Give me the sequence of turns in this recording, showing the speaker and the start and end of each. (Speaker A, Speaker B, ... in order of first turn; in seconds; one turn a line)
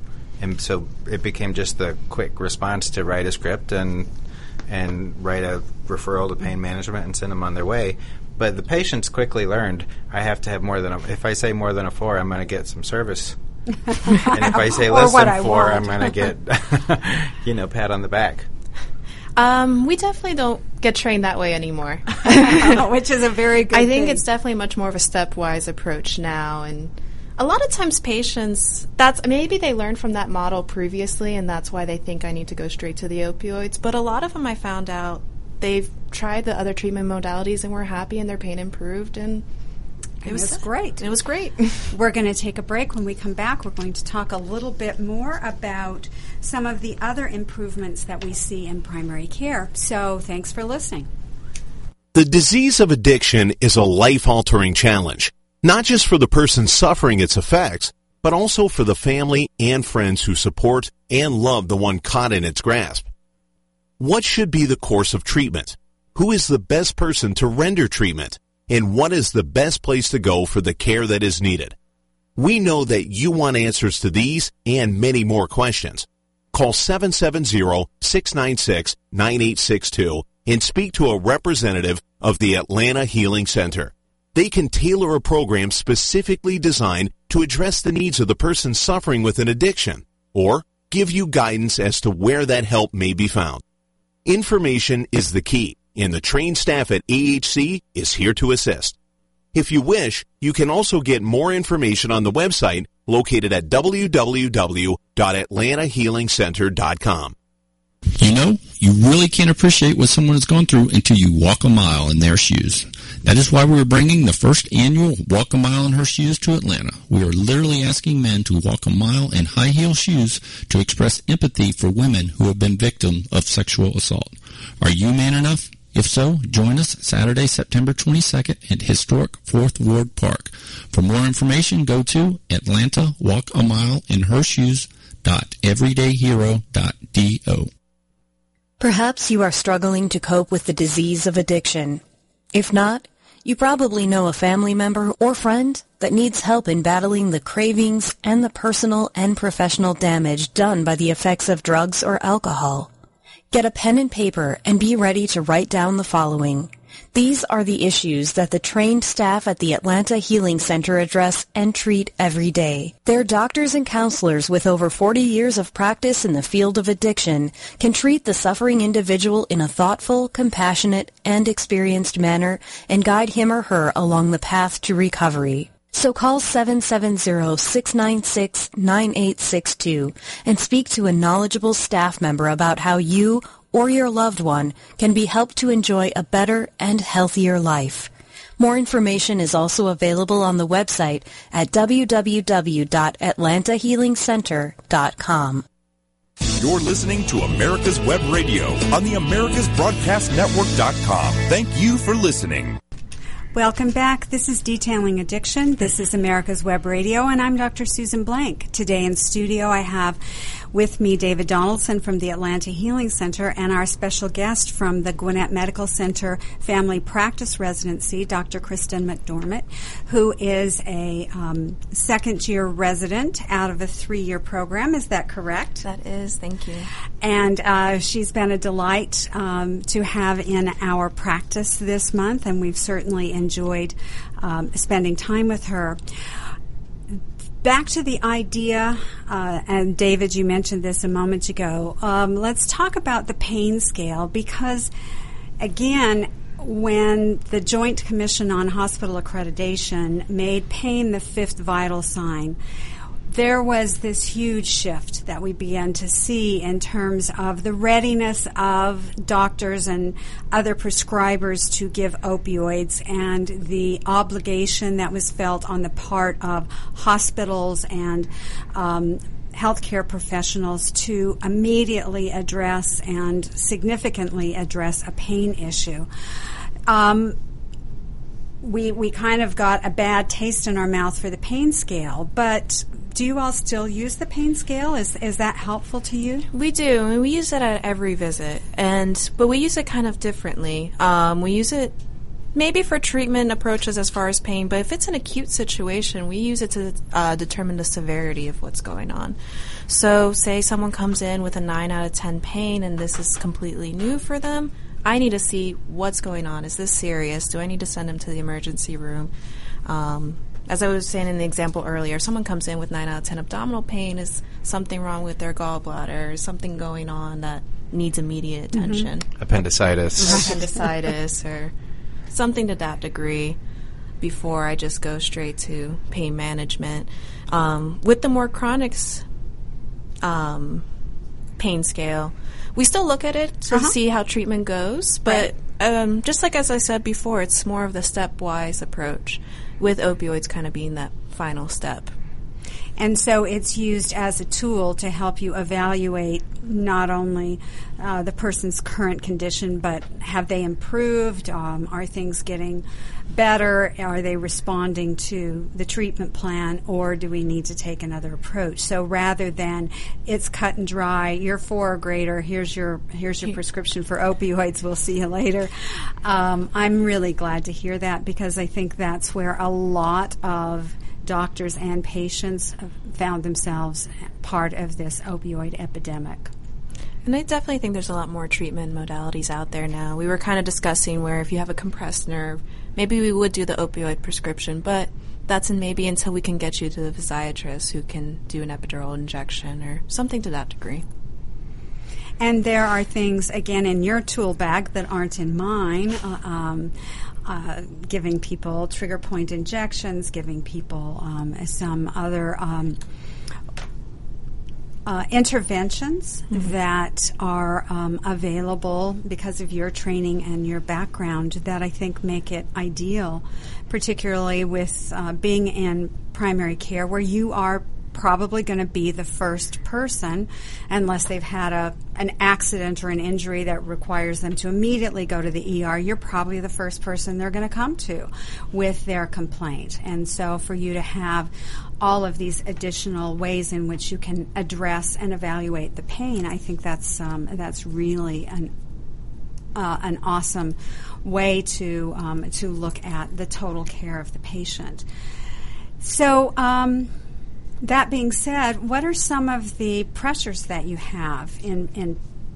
Speaker A: 0.4-4.1
Speaker A: 4.7-13.4
Speaker B: 14.1-16.2
Speaker A: 14.2-18.5
Speaker C: 19.4-22.9
Speaker B: 22.3-24.2
Speaker C: 23.7-39.4
Speaker B: 40.2-41.0
Speaker C: 40.2-41.9
Speaker B: 41.9-51.1
Speaker D: 52.1-63.1
Speaker D: 64.0-71.7
Speaker D: 72.4-93.6
Speaker D: 94.2-98.9
Speaker D: 99.5-107.3
Speaker E: 108.2-137.7
Speaker F: 138.8-142.0
Speaker F: 142.5-152.9
Speaker F: 153.5-195.6
Speaker G: 196.5-202.8
Speaker B: 203.5-210.2
Speaker B: 210.7-225.8
Speaker C: 225.8-226.9
Speaker B: 227.2-236.0
Speaker B: 237.6-244.9
Speaker B: 245.6-252.6
Speaker B: 253.3-276.1
Speaker B: 276.9-277.4
Speaker B: 278.6-286.5
Speaker C: 286.5-291.9
Speaker C: 292.5-299.4
Speaker C: 299.9-309.3
Speaker C: 309.9-319.3
Speaker B: 318.8-319.1
Speaker A: 319.4-320.6
Speaker C: 320.2-321.7
Speaker C: 322.3-323.6
Speaker C: 324.2-329.2
Speaker C: 330.2-330.8
Speaker C: 331.6-342.1
Speaker B: 343.0-376.5
Speaker C: 377.2-391.0
Speaker B: 392.4-396.9
Speaker B: 397.4-403.0
Speaker B: 405.1-438.7
Speaker B: 439.7-445.0
Speaker B: 446.0-447.1
Speaker B: 447.8-452.2